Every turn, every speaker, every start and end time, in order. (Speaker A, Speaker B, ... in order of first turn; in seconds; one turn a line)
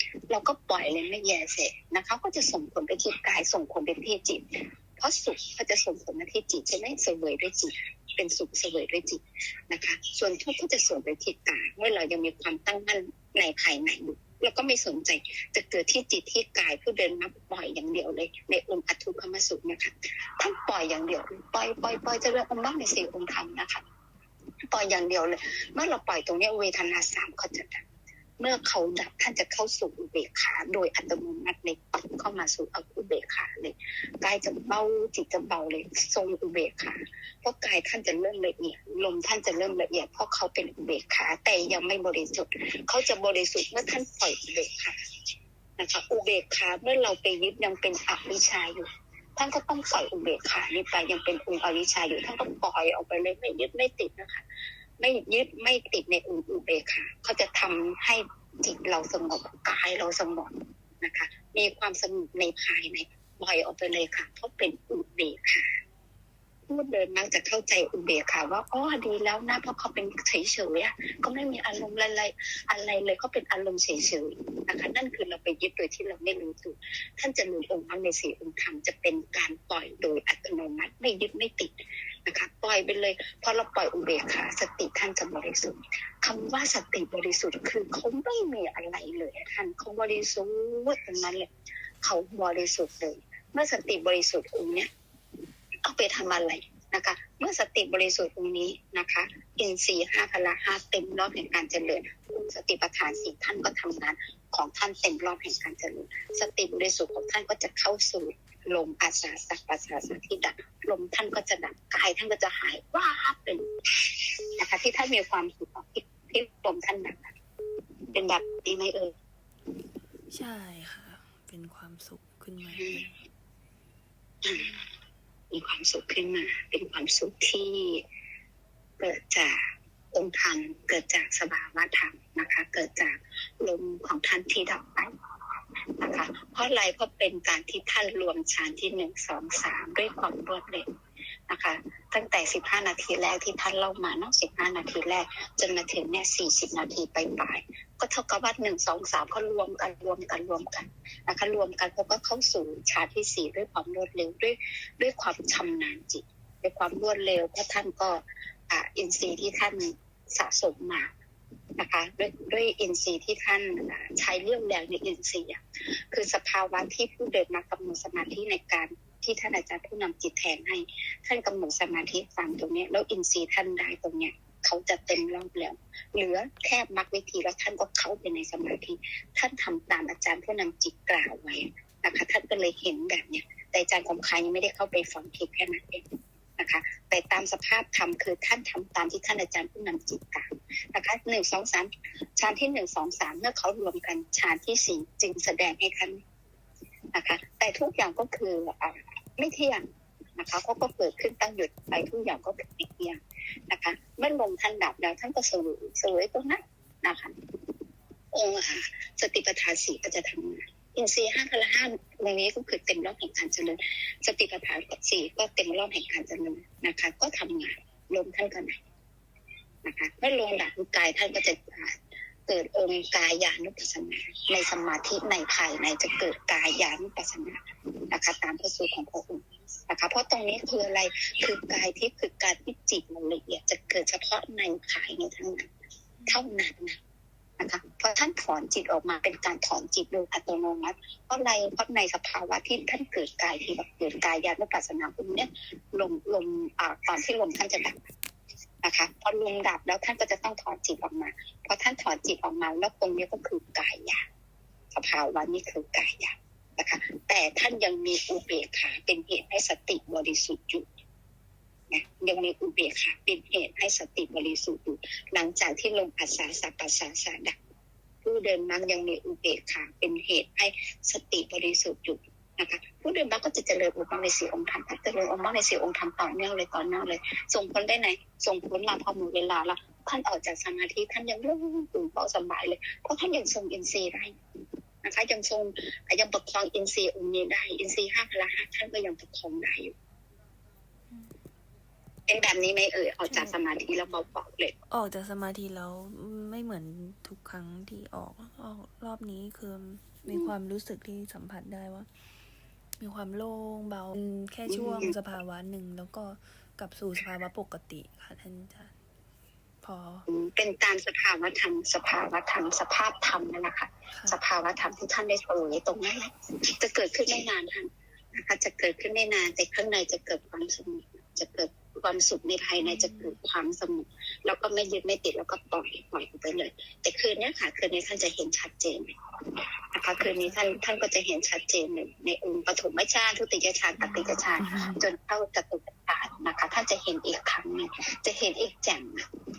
Speaker A: 0.3-23.8
Speaker A: 24.7-27.8
Speaker A: 28.4-45.0
Speaker A: 45.8-48.8
Speaker A: 49.4-54.4
Speaker A: 55.0-65.8
Speaker A: 66.7-81.7
Speaker A: 82.2-91.5
Speaker A: 92.0-94.9
Speaker A: 95.8-117.3
Speaker A: 118.1-119.1
Speaker B: 120.3-123.1
Speaker A: 122.7-123.1
Speaker A: 124.4-124.8
Speaker B: 124.5-124.8
Speaker A: 125.5-128.0
Speaker A: 129.0-135.1
Speaker A: 136.0-140.9
Speaker A: 141.5-161.1
Speaker A: 161.8-186.1
Speaker A: 186.6-196.2
Speaker A: 197.1-207.3
Speaker A: 208.3-218.8
Speaker A: 219.8-235.7
Speaker B: 236.2-236.4
Speaker A: 236.3-237.0
Speaker A: 237.6-248.1
Speaker A: 248.8-254.2
Speaker A: 254.9-260.9
Speaker A: 261.9-267.6
Speaker A: 268.2-284.3
Speaker A: 285.0-289.9
Speaker B: 291.1-291.3
Speaker A: 292.3-294.8
Speaker B: 293.2-293.6
Speaker B: 294.9-302.1
Speaker A: 300.3-300.5
Speaker B: 303.0-308.9
Speaker A: 304.7-305.1
Speaker B: 309.8-310.2
Speaker A: 310.3-329.1
Speaker B: 314.1-314.4
Speaker B: 322.8-323.4
Speaker A: 329.9-339.2
Speaker B: 330.2-330.6
Speaker B: 334.0-335.0